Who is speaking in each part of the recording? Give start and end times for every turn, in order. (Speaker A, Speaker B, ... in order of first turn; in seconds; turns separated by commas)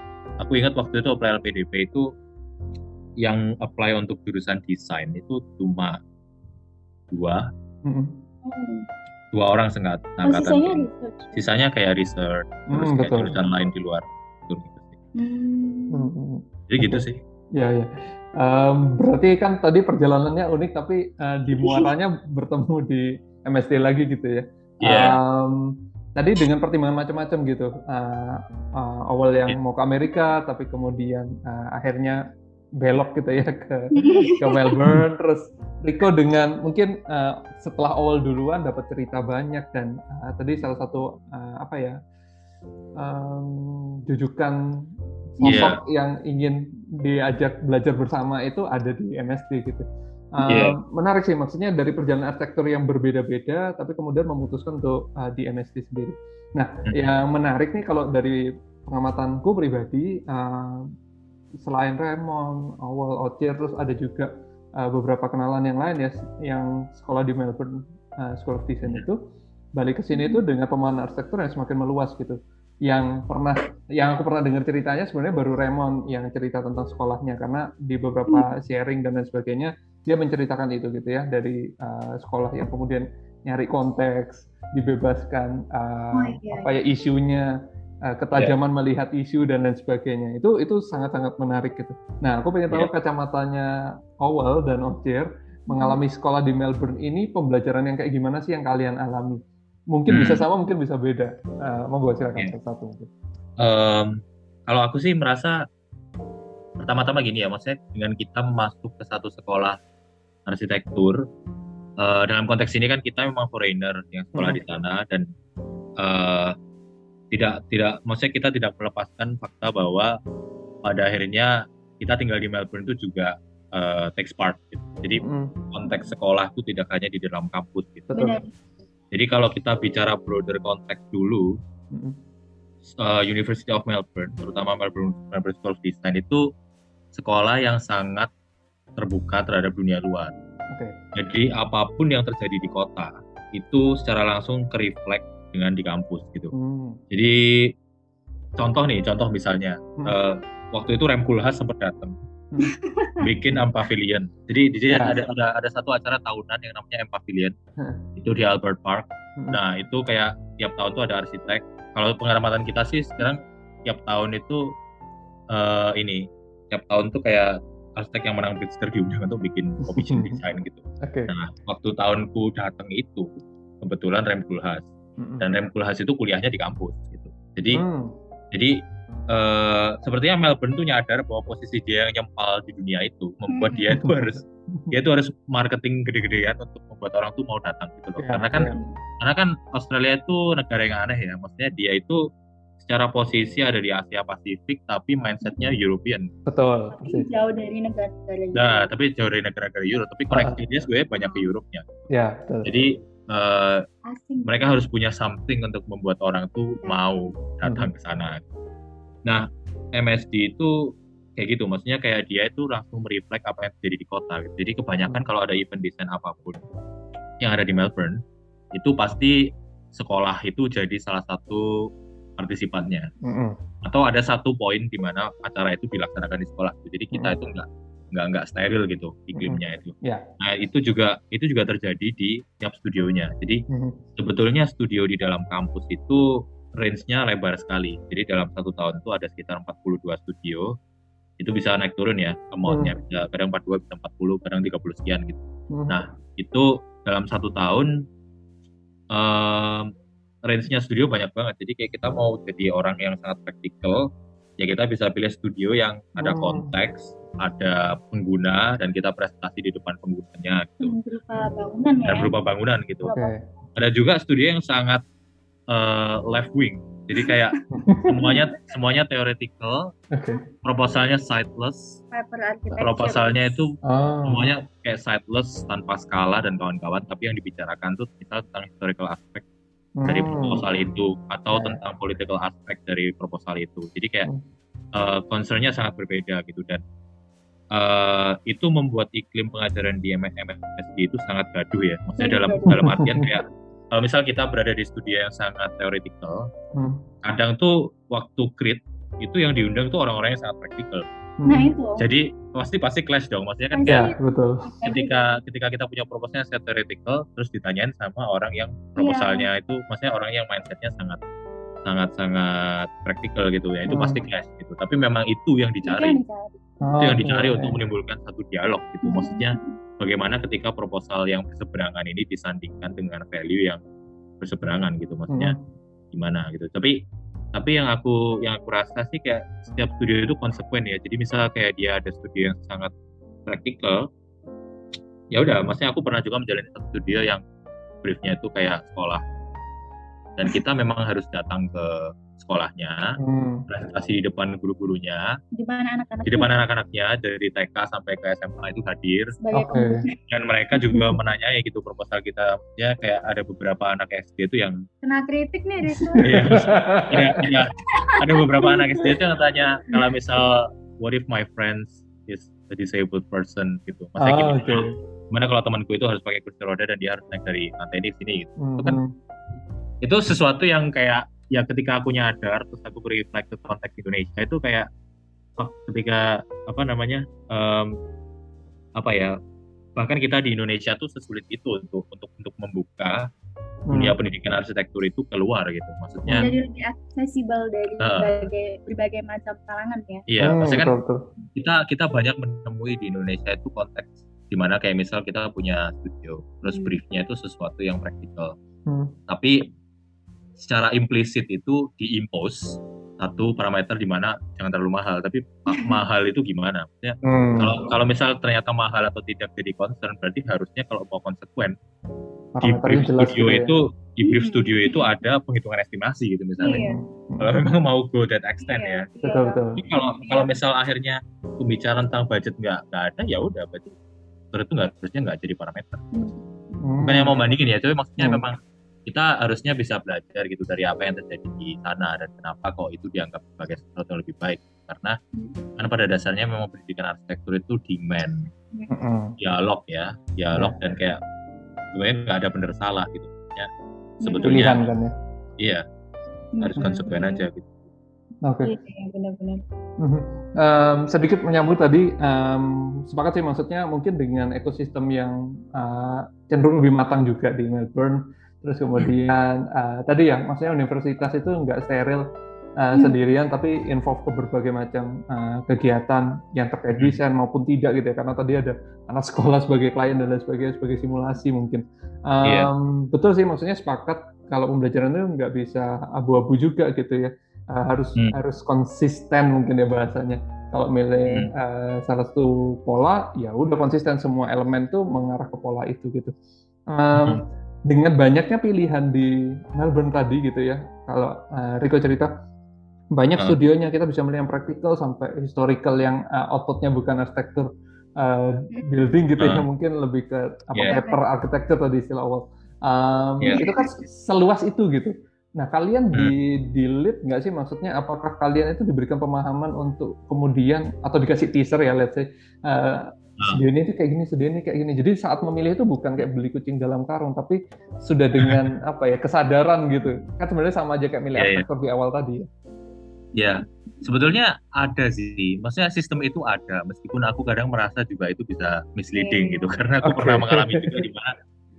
Speaker A: 0.4-2.1, Speaker A: 3.2-6.0, Speaker A: 7.1-7.5, Speaker B: 7.8-8.2, Speaker C: 8.4-8.9, Speaker A: 9.3-10.8, Speaker C: 10.2-11.4, Speaker A: 11.3-15.0, Speaker B: 12.7-13.4, Speaker C: 15.2-16.1, Speaker B: 15.9-32.2, Speaker A: 16.7-17.2, Speaker C: 21.5-21.9, Speaker A: 24.8-25.2, Speaker B: 32.8-42.0, Speaker C: 33.9-34.7, Speaker B: 43.0-44.6, Speaker B: 45.4-60.9, Speaker C: 45.4-45.8, Speaker A: 45.5-45.8, Speaker A: 50.5-50.8, Speaker B: 61.6-69.2, Speaker B: 69.8-87.5, Speaker C: 70.1-70.4, Speaker C: 86.1-86.7, Speaker B: 88.1-93.7, Speaker B: 94.2-99.4, Speaker C: 95.7-96.0, Speaker B: 99.9-103.1, Speaker A: 100.1-100.4, Speaker A: 103.6-105.6, Speaker A: 106.8-109.8, Speaker A: 110.5-111.2, Speaker A: 112.0-115.3, Speaker B: 114.3-114.6, Speaker A: 116.0-116.5, Speaker A: 117.3-120.1, Speaker A: 120.9-128.1, Speaker B: 125.2-125.5, Speaker B: 128.1-128.4, Speaker C: 128.1-128.6, Speaker A: 129.1-131.5, Speaker A: 132.9-136.4, Speaker A: 137.1-138.3, Speaker A: 139.0-140.3, Speaker A: 141.2-146.5, Speaker B: 146.5-147.0, Speaker A: 147.1-147.7, Speaker A: 148.6-152.2, Speaker C: 152.6-153.2, Speaker A: 153.2-157.6, Speaker B: 154.9-155.2, Speaker A: 158.2-164.7, Speaker A: 165.5-174.9, Speaker B: 169.9-170.4, Speaker B: 171.0-171.3, Speaker B: 175.2-175.5, Speaker A: 175.4-177.8, Speaker B: 177.7-178.1, Speaker A: 178.5-178.8, Speaker A: 179.3-192.2, Speaker C: 183.5-184.0, Speaker B: 183.9-185.0, Speaker B: 188.2-188.8, Speaker A: 192.8-196.3, Speaker C: 195.4-195.7, Speaker B: 196.5-197.3, Speaker C: 196.9-198.8, Speaker A: 198.6-201.9, Speaker B: 200.3-200.6, Speaker C: 201.2-201.4, Speaker B: 202.1-202.7, Speaker A: 202.6-203.8, Speaker C: 204.1-204.8, Speaker A: 204.4-208.4, Speaker C: 206.8-207.3, Speaker B: 207.7-207.9, Speaker A: 209.3-210.7, Speaker A: 211.4-216.7, Speaker A: 217.4-218.2, Speaker A: 218.7-219.4, Speaker A: 219.9-221.7, Speaker A: 222.4-223.1, Speaker B: 223.2-223.6, Speaker A: 223.8-233.6, Speaker B: 229.4-230.2, Speaker B: 233.7-234.0, Speaker A: 234.2-236.2, Speaker A: 236.8-240.7, Speaker A: 241.4-247.9, Speaker B: 242.7-242.9, Speaker B: 245.7-246.0, Speaker A: 249.1-249.9, Speaker A: 250.4-254.1, Speaker A: 254.6-260.9, Speaker B: 256.2-256.7, Speaker C: 260.8-262.3, Speaker A: 262.1-263.1, Speaker C: 263.0-263.3, Speaker B: 263.1-263.4, Speaker A: 263.8-265.0, Speaker A: 265.7-267.5, Speaker B: 267.7-268.3, Speaker A: 268.1-269.9, Speaker B: 270.1-270.4, Speaker A: 270.6-272.0, Speaker C: 272.1-273.6, Speaker A: 272.7-279.4, Speaker B: 273.8-274.5, Speaker B: 280.0-280.7, Speaker A: 280.1-284.3, Speaker B: 281.5-281.8, Speaker A: 284.9-286.8, Speaker A: 287.7-296.5, Speaker C: 292.2-292.8, Speaker B: 292.7-293.3, Speaker B: 296.8-297.0, Speaker A: 297.2-301.1, Speaker B: 301.4-301.7, Speaker C: 301.5-302.0, Speaker A: 302.0-304.0, Speaker C: 303.7-305.4, Speaker B: 303.9-304.6, Speaker A: 304.9-311.2, Speaker C: 309.0-309.5, Speaker A: 311.9-316.2, Speaker B: 313.9-314.2, Speaker C: 315.8-316.7, Speaker B: 316.8-317.8, Speaker A: 317.0-323.8, Speaker C: 319.0-319.8, Speaker A: 324.4-325.6, Speaker B: 325.3-325.6, Speaker A: 326.1-327.0, Speaker A: 327.5-332.9, Speaker A: 333.5-334.1, Speaker A: 335.3-337.4, Speaker A: 338.0-339.2, Speaker A: 340.4-343.2, Speaker B: 343.2-343.7, Speaker A: 343.7-345.3, Speaker C: 345.6-346.5, Speaker A: 346.3-349.3, Speaker C: 349.4-350.1, Speaker B: 349.6-350.0, Speaker A: 350.3-354.8, Speaker C: 350.8-351.1, Speaker C: 355.0-356.3, Speaker B: 355.9-357.5, Speaker A: 356.2-369.0, Speaker C: 357.9-359.0, Speaker B: 364.2-364.9, Speaker B: 368.6-369.1, Speaker A: 370.0-374.9, Speaker A: 375.6-378.0, Speaker A: 379.0-379.3, Speaker A: 380.0-383.2, Speaker B: 383.9-384.1, Speaker A: 383.9-386.5, Speaker C: 386.3-390.2, Speaker A: 388.0-388.3, Speaker A: 390.3-390.9, Speaker B: 390.4-391.2, Speaker A: 391.6-398.5, Speaker C: 396.7-397.0, Speaker B: 398.9-399.1, Speaker A: 399.3-399.7, Speaker A: 400.6-411.8, Speaker B: 407.2-407.9, Speaker B: 412.6-413.7, Speaker A: 412.6-416.8, Speaker C: 414.2-415.1, Speaker C: 416.6-417.0, Speaker B: 416.6-417.6, Speaker A: 417.4-419.1, Speaker C: 418.6-420.5, Speaker B: 419.2-419.8, Speaker A: 419.8-424.0, Speaker A: 424.5-426.1, Speaker C: 426.1-426.8, Speaker B: 426.8-427.3, Speaker A: 427.0-435.2, Speaker C: 435.4-435.6, Speaker A: 435.8-438.5, Speaker B: 438.9-439.4, Speaker A: 439.4-441.2, Speaker B: 440.6-440.8, Speaker A: 441.9-443.7, Speaker C: 444.2-444.6, Speaker A: 444.2-444.9, Speaker B: 444.4-445.1, Speaker A: 445.6-445.8, Speaker C: 446.6-447.5, Speaker A: 446.6-447.8, Speaker B: 448.4-448.7, Speaker C: 448.6-449.6, Speaker B: 450.0-462.2, Speaker B: 462.8-486.3, Speaker A: 472.4-472.7, Speaker B: 486.9-492.3, Speaker A: 487.2-487.4, Speaker B: 493.1-522.5, Speaker A: 499.4-499.6, Speaker C: 500.9-501.2, Speaker A: 503.4-503.7, Speaker C: 503.5-503.8, Speaker A: 521.4-521.7, Speaker A: 523.4-531.3, Speaker C: 529.1-529.7, Speaker B: 530.0-531.0